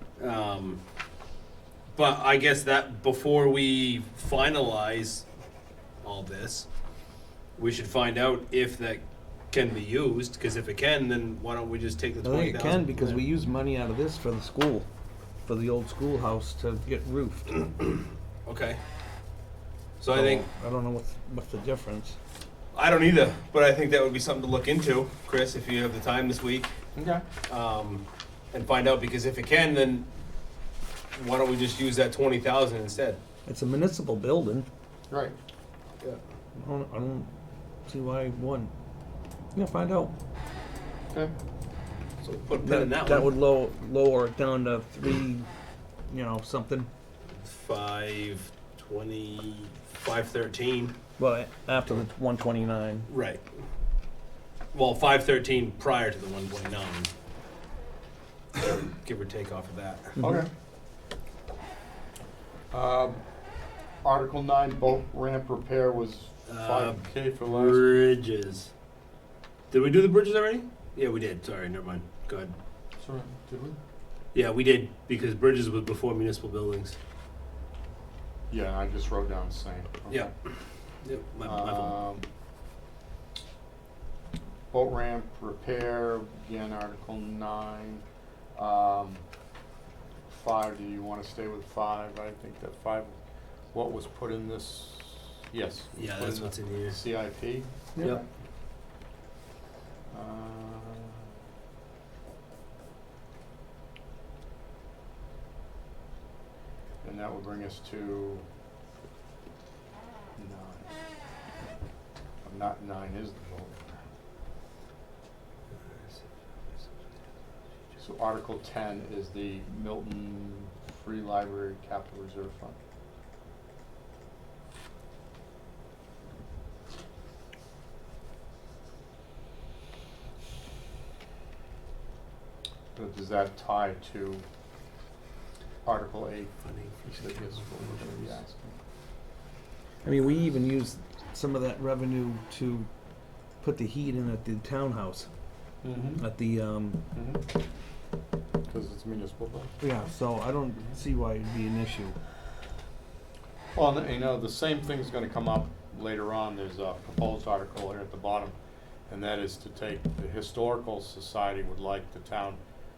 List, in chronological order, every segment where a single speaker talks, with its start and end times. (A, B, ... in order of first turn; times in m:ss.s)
0:00.2-0:00.8 A
0:01.9-0:05.2 A
0:06.0-0:06.7 A
0:07.6-0:13.2 A
0:12.2-0:14.9 B
0:15.5-0:17.6 B
0:18.5-0:18.8 A
0:20.0-0:20.5 A
0:20.1-0:22.2 B
0:22.7-0:26.7 A
0:27.0-0:27.2 C
0:27.5-0:30.1 A
0:31.1-0:33.2 A
0:33.5-0:34.7 B
0:35.1-0:35.4 C
0:36.6-0:37.3 B
0:37.9-0:38.7 B
0:39.6-0:40.1 B
0:42.2-0:43.3 A
0:42.6-0:45.5 B
0:46.1-0:46.9 B
0:47.3-0:51.0 A
0:51.2-0:53.1 B
0:53.1-0:53.4 A
0:54.7-0:57.1 A
0:58.6-1:00.2 A
1:00.2-1:00.4 B
1:00.2-1:00.5 C
1:02.7-1:03.2 C
1:04.0-1:07.9 C
1:06.5-1:08.7 A
1:09.7-1:12.6 A
1:13.0-1:13.8 C
1:14.3-1:17.0 A
1:18.5-1:20.3 C
1:20.1-1:22.0 A
1:21.4-1:22.2 C
1:24.7-1:28.0 C
1:28.6-1:29.2 C
1:30.3-1:33.2 C
1:33.7-1:38.2 C
1:35.9-1:37.0 A
1:40.1-1:41.3 C
1:47.0-1:48.4 C
1:50.4-1:50.9 C
1:52.4-1:54.0 C
1:55.8-1:56.2 A
1:58.0-2:02.8 C
2:13.0-2:14.4 C
2:15.9-2:18.8 C
2:16.7-2:18.4 A
2:20.0-2:22.9 B
2:23.6-2:25.3 B
2:25.8-2:26.2 C
2:26.2-2:27.0 B
2:27.1-2:27.4 C
2:28.7-2:29.7 C
2:29.8-2:32.2 B
2:33.7-2:38.6 C
2:39.1-2:42.6 C